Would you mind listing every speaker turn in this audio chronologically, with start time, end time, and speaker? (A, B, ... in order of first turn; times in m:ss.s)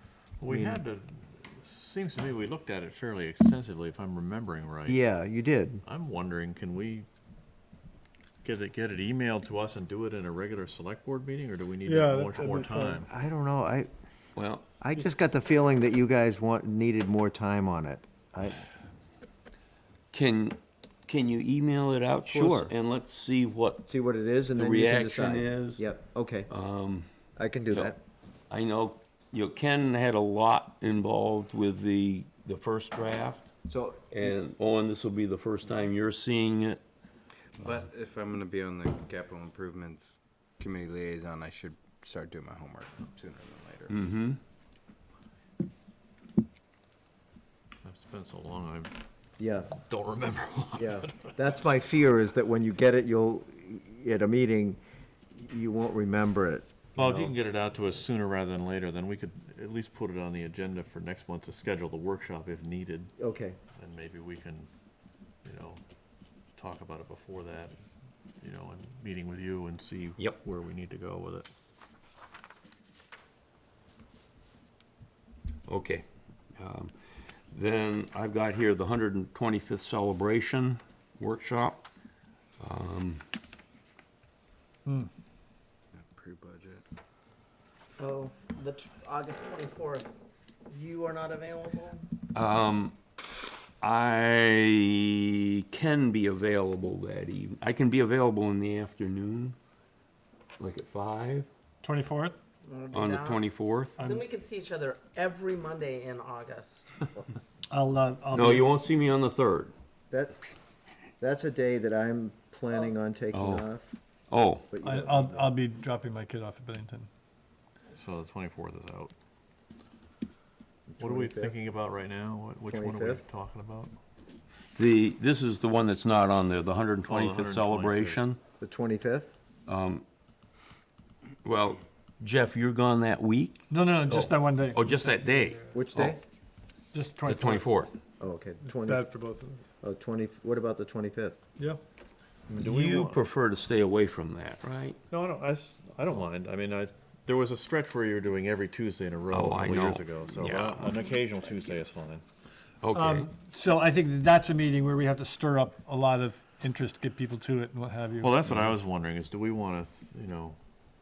0:00.4-0:05.0 A
0:00.5-0:00.8 B
0:04.9-0:05.8 B
0:05.9-0:07.1 A
0:08.4-0:13.1 A
0:11.8-0:13.0 C
0:13.0-0:13.9 B
0:14.4-0:14.6 D
0:14.8-0:18.6 B
0:20.1-0:23.9 D
0:22.3-0:22.7 B
0:23.9-0:26.5 B
0:24.5-0:25.9 D
0:26.5-0:27.1 D
0:27.4-0:28.0 B
0:28.5-0:33.5 D
0:33.7-0:34.3 B
0:34.1-0:36.8 D
0:37.6-0:37.9 D
0:37.6-0:43.9 E
0:43.9-0:44.4 D
0:47.8-0:48.9 A
0:49.4-0:49.7 B
0:49.8-0:51.6 A
0:50.8-0:54.8 B
0:55.4-0:57.3 B
0:57.0-1:03.1 A
1:03.2-1:03.6 B
1:03.8-1:04.7 A
1:05.4-1:05.8 A
1:06.6-1:07.8 A
1:08.4-1:11.5 A
1:15.7-1:16.0 D
1:16.6-1:16.9 D
1:17.5-1:21.8 D
1:22.6-1:23.2 D
1:26.1-1:26.8 E
1:28.0-1:30.1 F
1:30.7-1:32.0 F
1:32.3-1:33.0 D
1:33.8-1:39.6 D
1:40.6-1:41.5 D
1:41.8-1:42.4 C
1:42.6-1:47.1 F
1:42.9-1:44.0 D
1:47.7-1:48.7 C
1:48.3-1:49.7 D
1:50.1-1:50.4 B
1:51.2-1:53.9 B
1:53.3-1:53.7 D
1:54.3-1:54.7 D
1:54.7-1:55.6 B
1:54.8-1:57.1 C
1:57.9-1:59.1 A
2:00.9-2:01.6 B
2:01.0-2:04.0 A
2:02.7-2:03.2 B
2:04.8-2:08.4 D
2:07.1-2:08.2 A
2:08.6-2:09.3 B
2:09.7-2:10.0 D
2:11.4-2:16.2 D
2:13.7-2:15.6 C
2:15.7-2:16.2 B
2:16.9-2:17.7 C
2:17.2-2:17.9 D
2:18.2-2:19.2 B
2:18.6-2:19.7 C
2:19.8-2:21.4 B
2:22.5-2:23.2 A
2:22.6-2:25.0 D
2:25.1-2:32.2 A
2:29.3-2:30.8 D
2:32.8-2:33.3 D
2:32.9-2:38.6 C
2:38.2-2:40.6 A